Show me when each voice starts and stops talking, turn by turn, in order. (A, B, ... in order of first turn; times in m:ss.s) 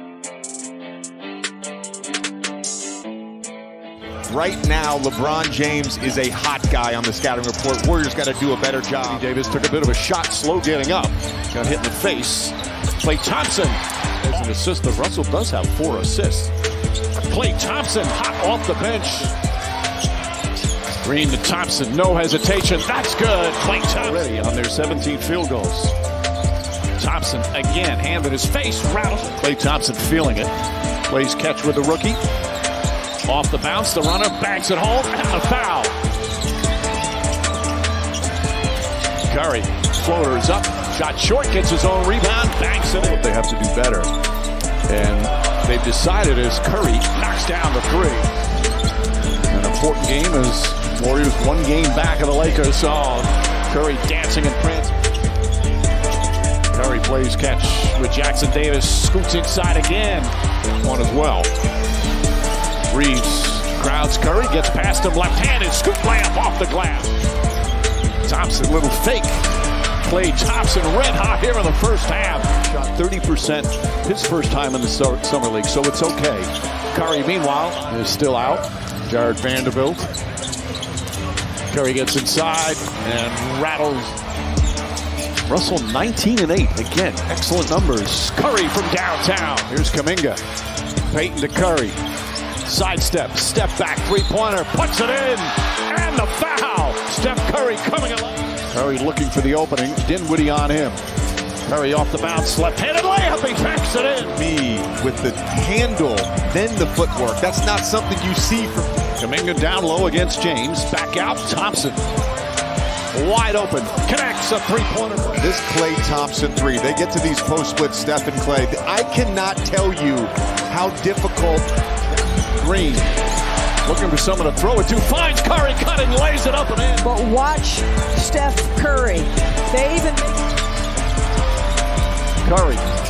0:04.3-0:09.3 A
0:09.0-0:16.5 B
0:17.2-0:19.3 B
0:21.0-0:25.9 B
0:27.0-0:30.5 B
0:31.1-0:32.2 B
0:33.2-0:35.9 B
0:39.3-0:44.1 B
0:44.9-0:48.3 B
0:49.5-0:54.9 B
0:56.7-1:01.5 B
1:02.9-1:07.1 B
1:08.2-1:09.4 B
1:10.0-1:20.1 B
1:21.7-1:24.2 B
1:25.5-1:30.4 B
1:31.1-1:32.0 B
1:32.6-1:41.0 B
1:41.7-1:44.4 B
1:44.2-1:49.0 A
1:49.2-1:52.0 B
1:53.1-1:55.5 B
1:55.4-2:01.7 A
2:02.6-2:03.1 B
2:03.8-2:07.1 B
2:07.0-2:10.4 C
2:12.4-2:12.9 B